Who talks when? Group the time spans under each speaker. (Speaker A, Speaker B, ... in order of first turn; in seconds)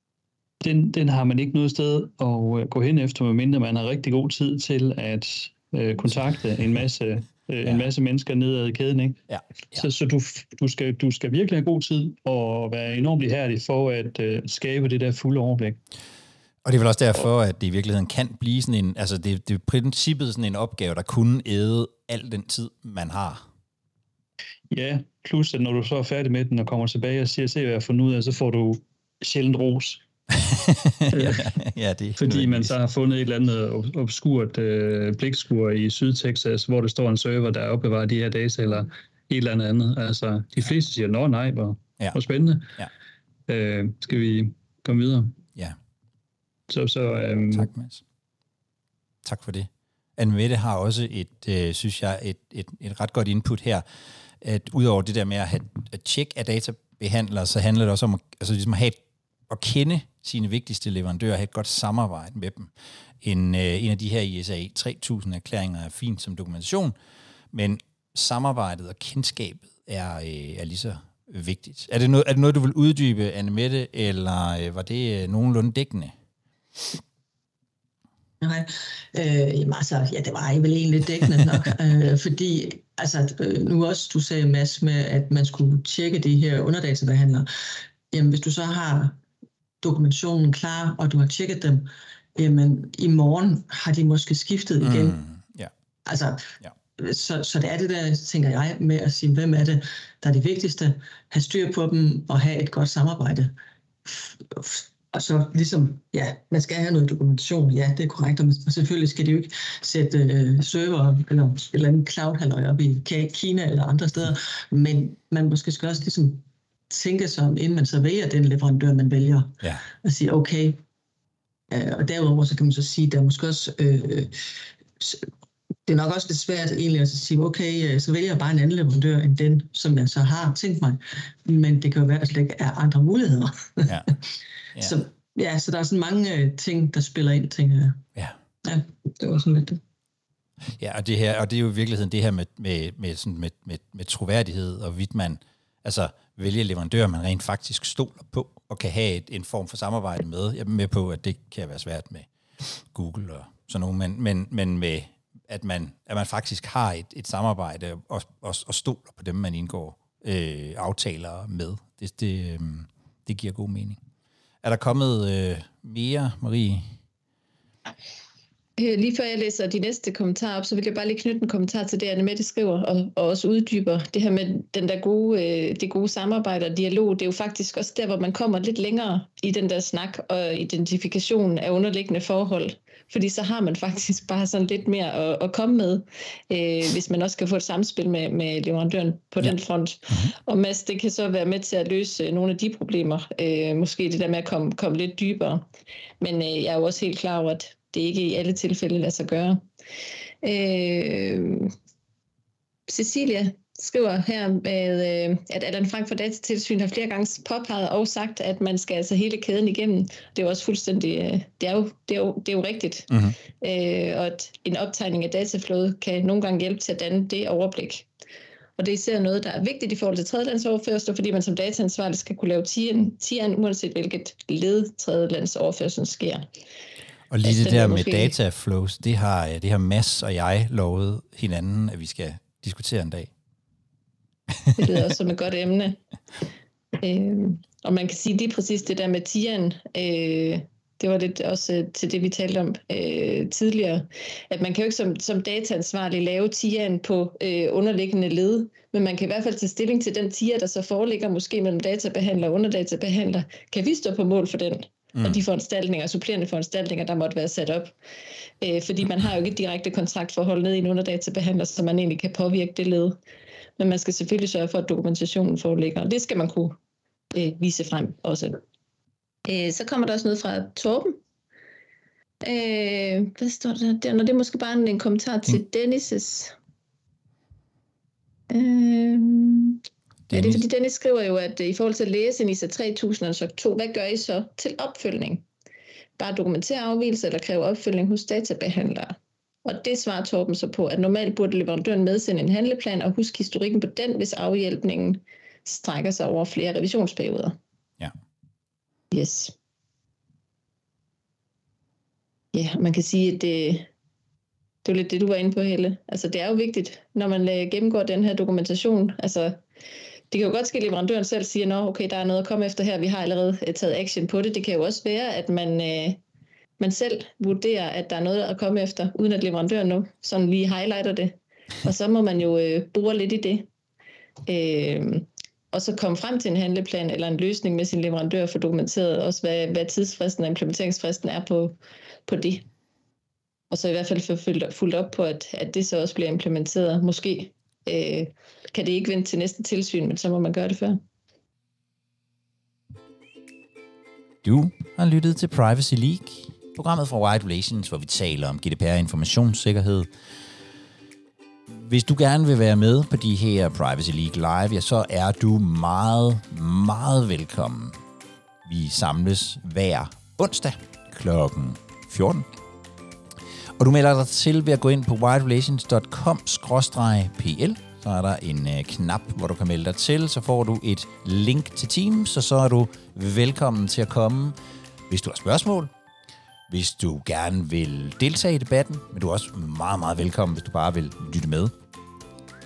Speaker A: 0.6-9.2, 9.7-15.8, 24.7-30.0, 31.1-31.5, 32.2-42.9, 43.5-45.4, 46.7-47.7
Speaker B: 9.3-9.8, 16.6-23.4, 30.3-32.7, 47.5-48.0, 49.2-53.8, 54.4-62.7, 63.2-66.9, 67.5-76.1, 94.8-95.7, 140.8-164.0, 164.6-166.8, 227.3-233.3, 234.5-234.8, 280.3-280.6, 344.4-350.1, 351.7-358.0, 358.6-362.5, 363.8-374.6, 375.1-375.9, 376.7-381.7
Speaker C: 78.4-87.5, 88.1-89.2, 89.8-95.2, 96.0-103.5, 104.0-120.8, 121.7-124.3, 125.0-125.3, 125.8-134.0, 134.8-138.0, 138.6-139.8
Speaker D: 168.8-195.6, 196.2-199.6, 200.4-201.7, 202.9-218.1, 218.8-226.5, 227.4-228.3, 234.8-236.0, 237.0-257.9, 258.6-263.2, 263.8-266.8, 267.3-268.6, 269.4-271.2, 272.4-276.5, 278.5-285.4, 286.2-297.6, 299.1-299.5, 302.5-303.9, 304.8-309.6, 310.3-316.2, 316.8-323.7, 324.5-332.6, 333.7-341.0